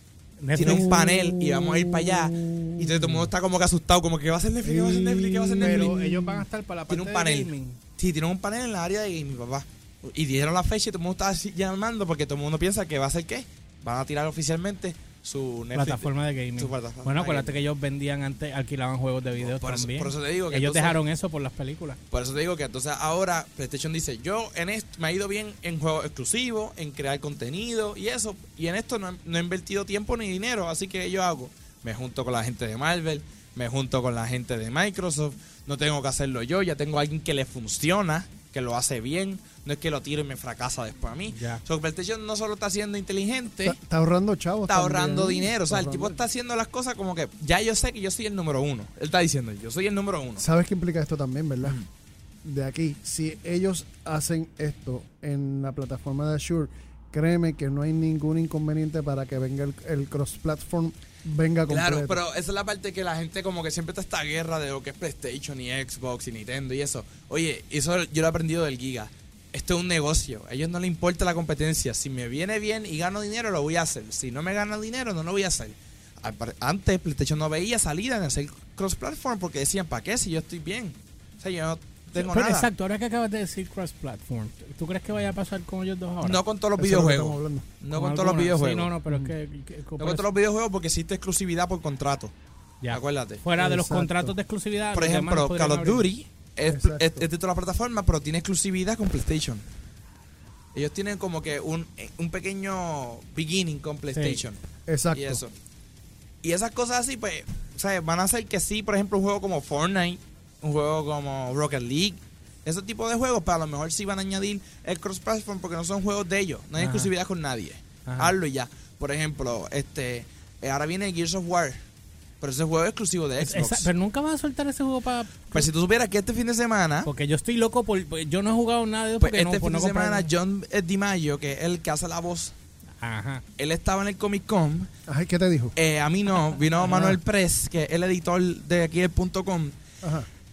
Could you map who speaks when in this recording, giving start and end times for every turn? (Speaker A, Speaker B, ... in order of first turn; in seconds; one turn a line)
Speaker A: 0.4-1.0
Speaker B: 0.5-6.0
Speaker C: 0.5-3.1
Speaker C: 4.6-6.5
Speaker A: 5.6-7.8
Speaker B: 6.9-17.5
Speaker A: 15.7-22.0
Speaker B: 19.4-21.0
Speaker B: 22.1-43.8
Speaker A: 41.3-41.6
Speaker C: 43.6-46.2
Speaker B: 44.7-50.4
Speaker C: 50.4-51.8
Speaker C: 52.4-62.2
Speaker B: 61.7-82.7
Speaker A: 82.2-86.4
Speaker B: 86.2-88.9
Speaker C: 86.8-87.7
Speaker A: 87.9-90.2
Speaker C: 89.1-89.3
Speaker B: 90.0-92.3
Speaker A: 92.8-96.1
Speaker B: 92.9-93.4
Speaker C: 93.6-94.3
Speaker B: 94.9-99.6
Speaker C: 96.7-97.2
Speaker B: 100.7-104.6
Speaker A: 104.1-104.4
Speaker C: 104.9-105.4
Speaker B: 105.1-105.5
Speaker B: 106.4-121.8
Speaker A: 116.8-117.1
Speaker A: 118.0-118.3
Speaker B: 122.4-123.9
Speaker A: 123.4-125.7
Speaker B: 125.5-127.1
Speaker A: 127.0-130.3
Speaker B: 129.2-132.5
Speaker A: 133.0-133.4
Speaker B: 133.6-134.9
Speaker C: 135.1-135.8
Speaker B: 135.8-139.8
Speaker C: 136.8-137.2
Speaker C: 140.0-140.3